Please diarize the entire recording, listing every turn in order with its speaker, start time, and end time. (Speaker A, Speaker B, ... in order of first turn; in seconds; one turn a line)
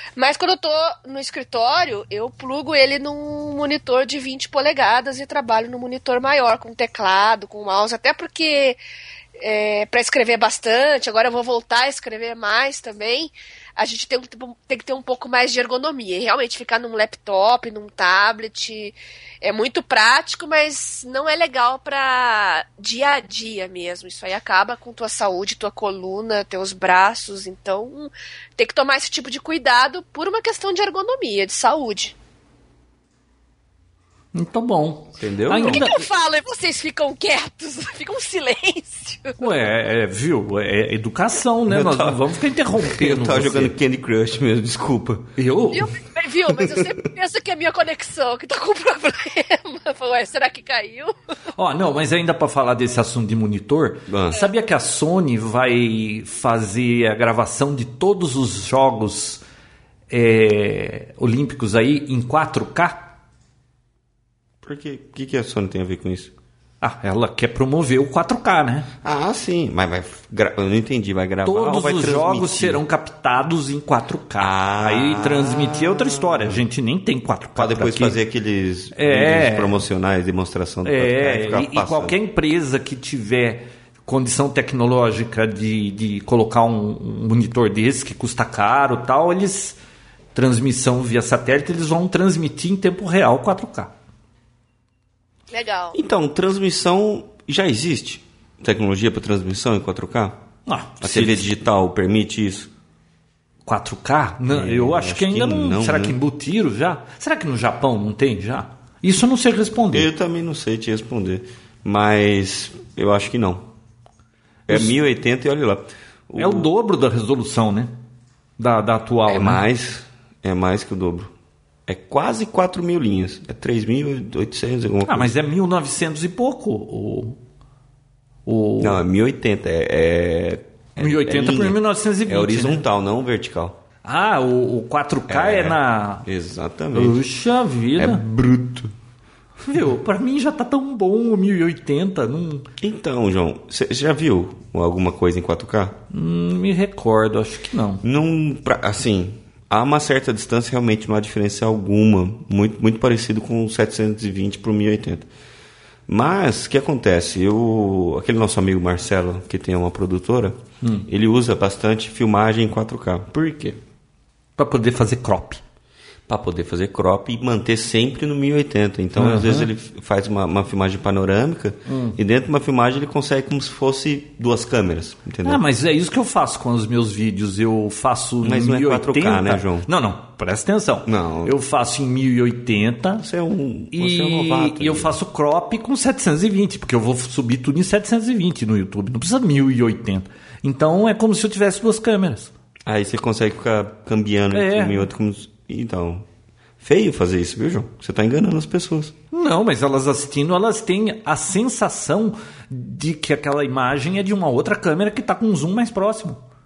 Speaker A: 0.2-8.8
Speaker A: 9.4-32.1
Speaker B: 34.3-36.0
Speaker C: 35.2-35.9
Speaker A: 35.7-39.4
Speaker B: 39.4-43.7
Speaker C: 41.7-42.3
Speaker C: 42.8-45.3
Speaker B: 45.4-45.9
Speaker A: 45.7-51.1
Speaker C: 46.5-46.9
Speaker B: 51.5-59.4
Speaker C: 54.1-54.4
Speaker B: 60.1-63.1
Speaker C: 64.6-66.3
Speaker B: 66.8-68.9
Speaker C: 69.0-72.8
Speaker B: 71.4-78.2
Speaker C: 74.4-76.6
Speaker C: 77.5-82.2
Speaker B: 78.9-79.8
Speaker B: 80.8-89.8
Speaker B: 90.3-93.9
Speaker A: 95.5-96.0
Speaker C: 95.9-100.4
Speaker B: 100.7-101.5
Speaker C: 101.0-102.7
Speaker B: 103.7-110.1
Speaker C: 104.5-106.2
Speaker C: 109.9-113.7
Speaker B: 114.7-115.0
Speaker C: 114.7-116.7
Speaker B: 116.4-117.9
Speaker B: 118.6-119.6
Speaker C: 119.3-121.3
Speaker C: 121.9-125.3
Speaker B: 125.0-127.4
Speaker B: 128.4-129.0
Speaker C: 128.8-133.8
Speaker B: 131.0-132.8
Speaker B: 134.0-136.3
Speaker C: 135.3-137.2
Speaker B: 136.9-138.2
Speaker C: 138.0-138.9
Speaker B: 139.6-142.7
Speaker C: 142.8-146.0
Speaker B: 146.1-148.0
Speaker C: 148.0-155.3
Speaker C: 156.1-163.8
Speaker B: 160.8-161.1
Speaker B: 164.6-165.6
Speaker C: 166.3-175.6
Speaker B: 169.2-169.7
Speaker B: 171.9-172.2
Speaker B: 175.4-183.2
Speaker C: 178.4-179.9
Speaker C: 181.1-181.6
Speaker C: 183.2-185.2
Speaker B: 183.9-192.5
Speaker C: 192.8-196.2
Speaker B: 194.5-195.1
Speaker C: 196.8-199.1
Speaker B: 199.3-206.4